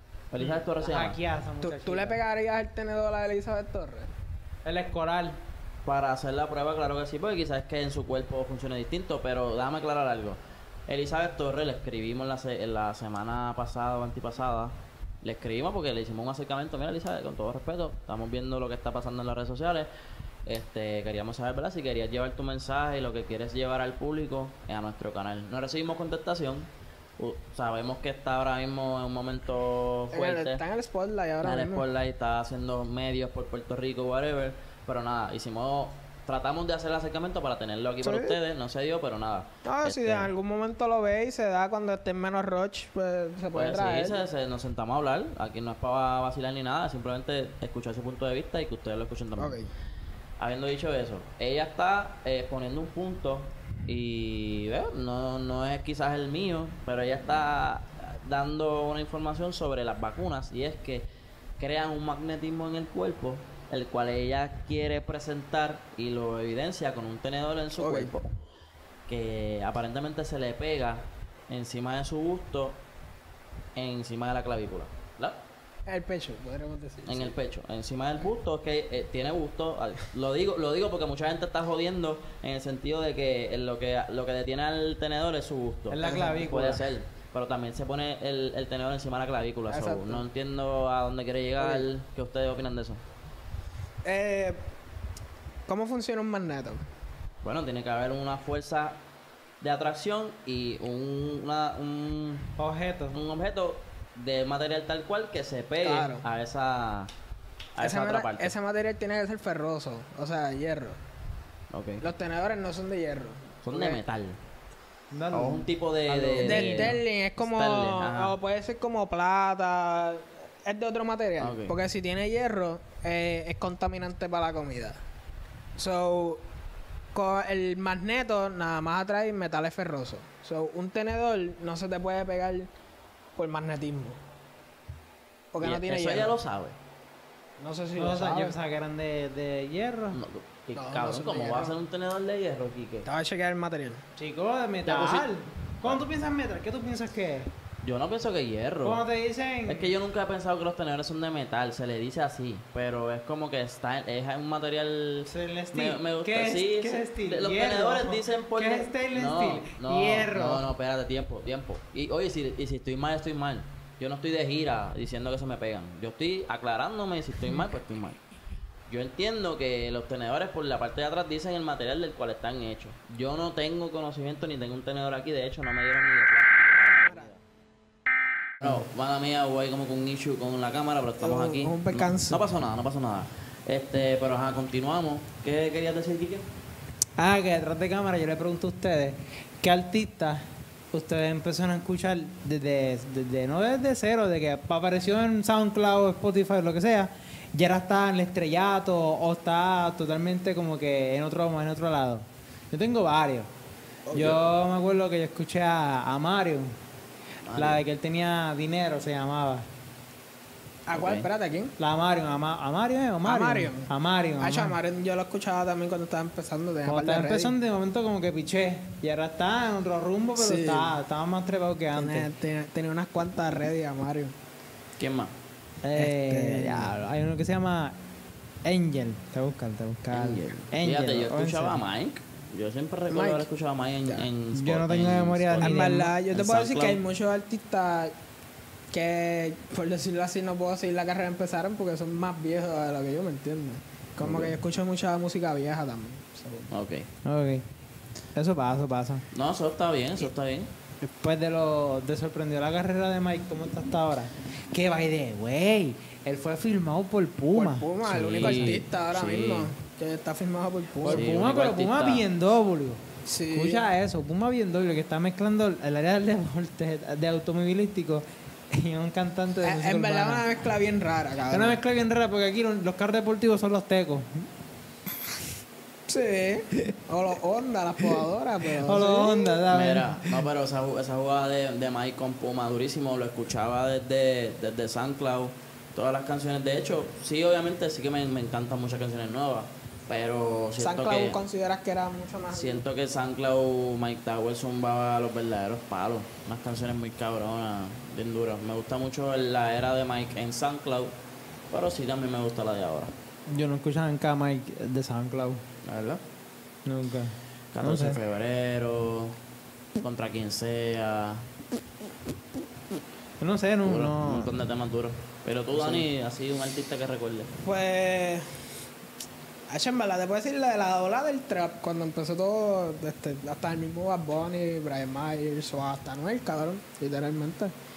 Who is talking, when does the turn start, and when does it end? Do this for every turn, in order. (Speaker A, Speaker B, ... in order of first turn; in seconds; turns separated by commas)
Speaker A: 0.3-1.2, Speaker B: 0.4-2.2, Speaker C: 1.6-4.1, Speaker B: 4.7-5.4, Speaker A: 5.8-19.9, Speaker A: 20.4-30.6, Speaker C: 30.1-31.9, Speaker A: 31.4-40.3, Speaker C: 38.0-38.4, Speaker C: 39.6-44.2, Speaker A: 43.5-49.6, Speaker C: 49.4-49.7, Speaker A: 50.4-61.1, Speaker A: 61.6-68.3, Speaker C: 67.8-68.1, Speaker A: 69.1-72.8, Speaker A: 73.8-75.4, Speaker C: 75.9-77.3, Speaker A: 77.0-93.0, Speaker B: 85.9-86.8, Speaker C: 86.0-86.3, Speaker C: 89.7-90.2, Speaker C: 91.6-91.9, Speaker C: 94.0-94.6, Speaker C: 95.7-96.8, Speaker A: 97.4-99.0, Speaker A: 99.6-102.6, Speaker B: 102.6-103.2, Speaker A: 103.1-107.1, Speaker C: 105.8-106.2, Speaker A: 107.8-108.5, Speaker C: 107.8-111.0, Speaker A: 111.7-112.1, Speaker C: 112.0-114.0, Speaker A: 113.6-114.4, Speaker B: 115.1-117.0, Speaker A: 115.3-118.4, Speaker C: 116.4-125.0, Speaker A: 121.4-121.8, Speaker C: 125.8-126.4, Speaker C: 127.1-132.7, Speaker C: 133.4-134.2, Speaker C: 135.5-136.4, Speaker A: 135.6-136.8, Speaker C: 137.6-138.6, Speaker B: 138.0-140.2, Speaker A: 140.1-143.1, Speaker C: 140.8-141.8, Speaker C: 143.1-144.0, Speaker B: 144.2-147.5, Speaker A: 144.8-145.3, Speaker A: 147.8-149.1, Speaker B: 148.8-149.9, Speaker A: 149.7-168.2, Speaker B: 155.3-160.7, Speaker A: 168.9-177.4, Speaker C: 176.7-177.3, Speaker A: 178.6-186.5, Speaker C: 181.2-182.4, Speaker B: 187.2-203.5, Speaker C: 204.1-204.4, Speaker B: 204.1-206.7, Speaker A: 204.1-204.4, Speaker A: 207.4-207.8, Speaker B: 207.6-209.7, Speaker C: 210.9-211.7, Speaker A: 210.9-211.3, Speaker B: 211.8-214.8, Speaker C: 213.2-217.6, Speaker B: 216.9-222.3, Speaker C: 220.4-221.0, Speaker C: 221.9-224.3, Speaker A: 225.0-225.3, Speaker B: 225.8-228.0, Speaker C: 225.9-226.9, Speaker B: 228.7-231.8, Speaker A: 230.1-237.0, Speaker C: 233.1-233.5, Speaker B: 234.5-236.1, Speaker C: 235.6-238.2, Speaker C: 238.9-246.7, Speaker A: 244.2-244.5, Speaker A: 246.7-247.1, Speaker B: 247.2-247.7, Speaker B: 248.3-249.2, Speaker A: 249.3-250.7, Speaker B: 251.1-258.8, Speaker C: 257.5-261.3, Speaker A: 258.1-259.7, Speaker B: 261.0-270.5, Speaker A: 261.1-262.3, Speaker C: 263.2-263.8, Speaker C: 269.6-271.8, Speaker B: 271.5-274.5, Speaker C: 276.1-279.6, Speaker B: 278.7-280.3, Speaker A: 279.7-291.4, Speaker C: 290.8-292.8, Speaker A: 292.5-301.1, Speaker A: 301.7-303.1, Speaker B: 303.5-305.6, Speaker A: 305.8-306.2, Speaker B: 306.9-308.2, Speaker A: 307.7-309.4, Speaker A: 310.0-311.5, Speaker B: 313.4-314.6, Speaker A: 313.8-317.5, Speaker C: 317.6-318.4, Speaker C: 319.7-327.7